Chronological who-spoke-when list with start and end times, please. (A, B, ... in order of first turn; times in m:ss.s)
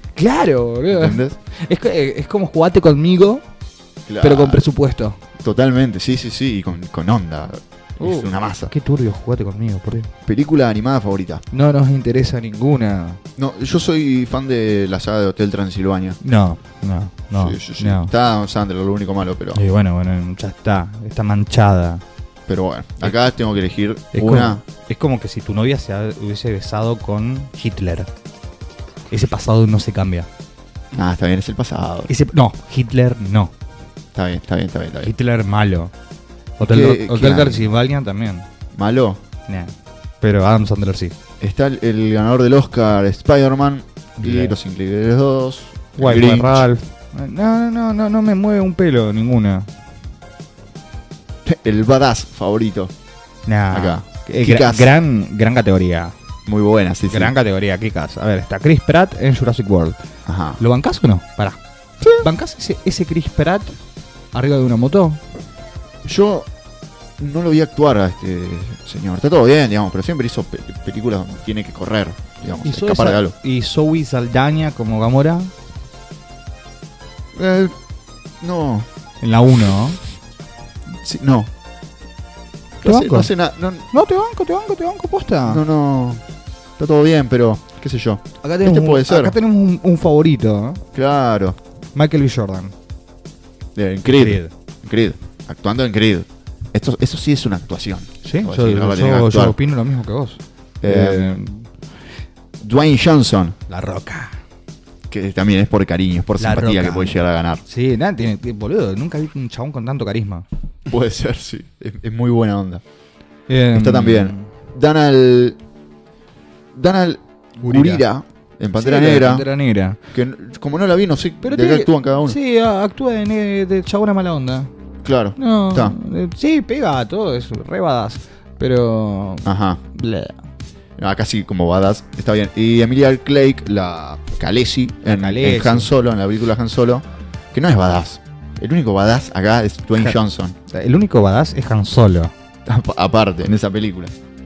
0:00.2-0:03.4 A
0:00.9-0:01.4 B
0:04.0-0:04.7 B
0:04.2-0:05.2 A
0:05.4-0:08.7 B
0:08.0-0:10.1 A
0:10.3-0:11.4 B
0:11.5-0:13.2 A
0:13.4-0:16.2 B
0:16.2-0:18.1 A
0:17.3-0:19.6 B
0:19.6-0:22.0 A
0:22.5-0:24.6 B
0:24.1-0:28.1 A
0:29.1-0:30.3 A
0:30.9-0:32.1 B
0:32.1-0:33.5 A
0:34.1-0:35.1 B
0:35.0-0:35.9 A
0:36.6-0:38.4 A
0:36.6-0:37.7 B
0:38.7-0:39.2 B
0:39.5-0:41.1 A
0:41.4-0:46.7 B
0:44.2-0:44.5 A
0:46.0-0:49.7 A
0:51.4-0:52.9 B
0:53.5-0:56.1 A
0:53.7-0:54.9 B
0:56.4-0:57.3 B
0:57.1-1:00.0 A
1:00.3-1:00.6 B
1:00.6-1:01.6 A
1:02.1-1:03.8 A
1:04.3-1:05.2 A
1:06.0-1:06.5 B
1:07.2-1:13.4 B
1:12.6-1:15.5 A
1:17.3-1:17.7 B
1:18.4-1:18.9 B
1:19.2-1:20.0 A
1:20.9-1:21.5 B
1:22.8-1:23.9 B
1:22.8-1:23.3 A
1:23.9-1:25.6 A
1:25.4-1:26.2 B
1:26.8-1:29.4 B
1:28.4-1:30.8 A
1:30.9-1:31.6 B
1:31.9-1:32.7 A
1:33.7-1:39.6 B
1:34.0-1:34.5 A
1:38.2-1:41.7 A
1:40.8-1:41.4 B
1:42.6-1:43.6 B
1:43.7-1:44.4 A
1:45.1-1:47.6 B
1:46.4-1:50.4 A
1:50.9-1:52.8 B
1:53.5-1:54.5 A
1:53.7-1:55.6 B
1:56.7-1:59.5 B
1:57.6-1:58.0 A
1:58.8-2:00.0 A
2:00.1-2:02.4 B
2:01.4-2:04.7 A
2:05.0-2:06.0 B
2:05.4-2:10.4 A
2:09.4-2:09.8 B
2:11.0-2:20.6 B
2:15.1-2:15.9 A
2:20.7-2:22.3 A
2:22.6-2:24.1 B